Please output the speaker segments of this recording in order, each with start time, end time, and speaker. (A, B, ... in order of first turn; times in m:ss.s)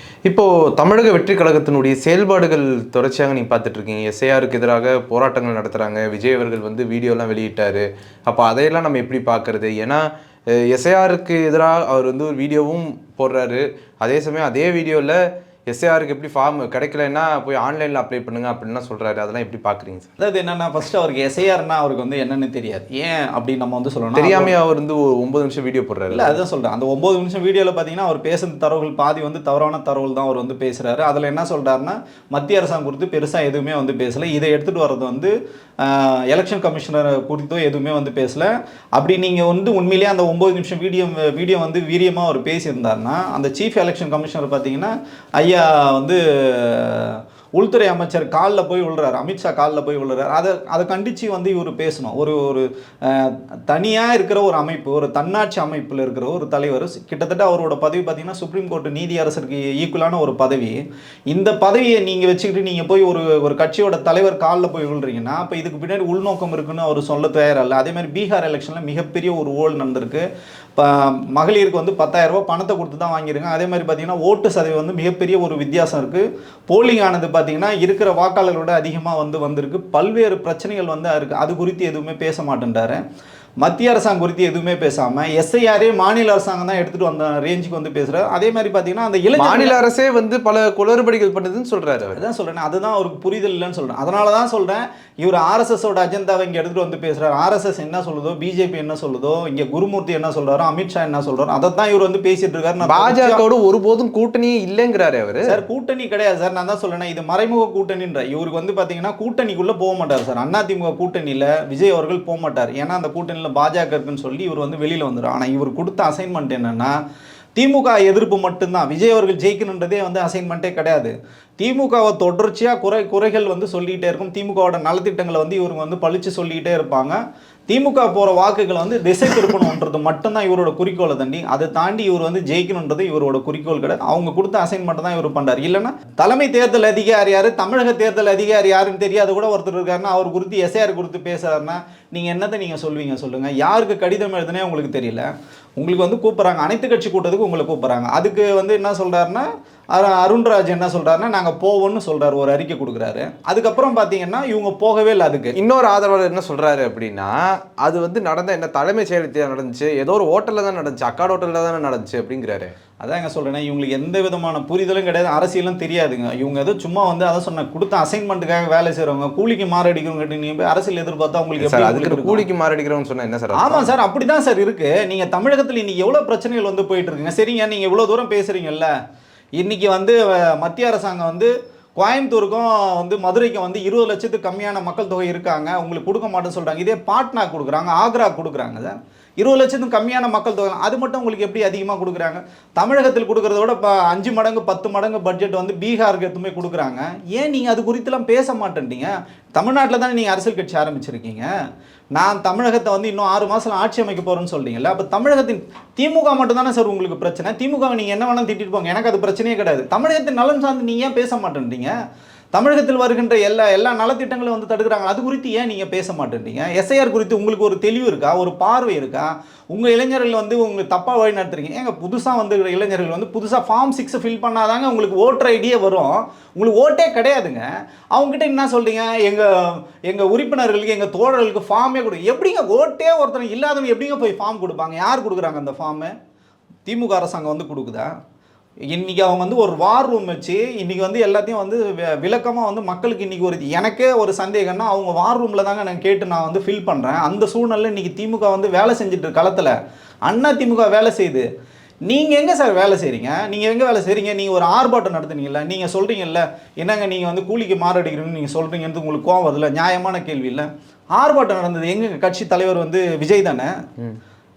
0:00.3-0:20.1 A
0:20.2-0:24.5 B
0:24.2-0:26.4 A
0:26.1-1:10.2 B
1:10.8-1:23.0 B
1:23.6-1:29.8 B
1:29.4-1:32.2 A
1:32.2-1:43.4 B
1:42.8-1:45.5 A
1:45.5-1:57.0 B
1:57.6-2:35.6 B
2:35.6-2:42.7 A
2:43.0-2:52.4 B
2:51.6-2:53.9 A
2:53.6-2:58.9 B
2:59.6-3:21.5 B
3:22.2-3:31.9 B
3:32.5-3:56.1 B
3:56.8-3:58.1 B
3:58.9-4:09.7 B
4:10.3-4:11.5 B
4:12.1-4:23.7 B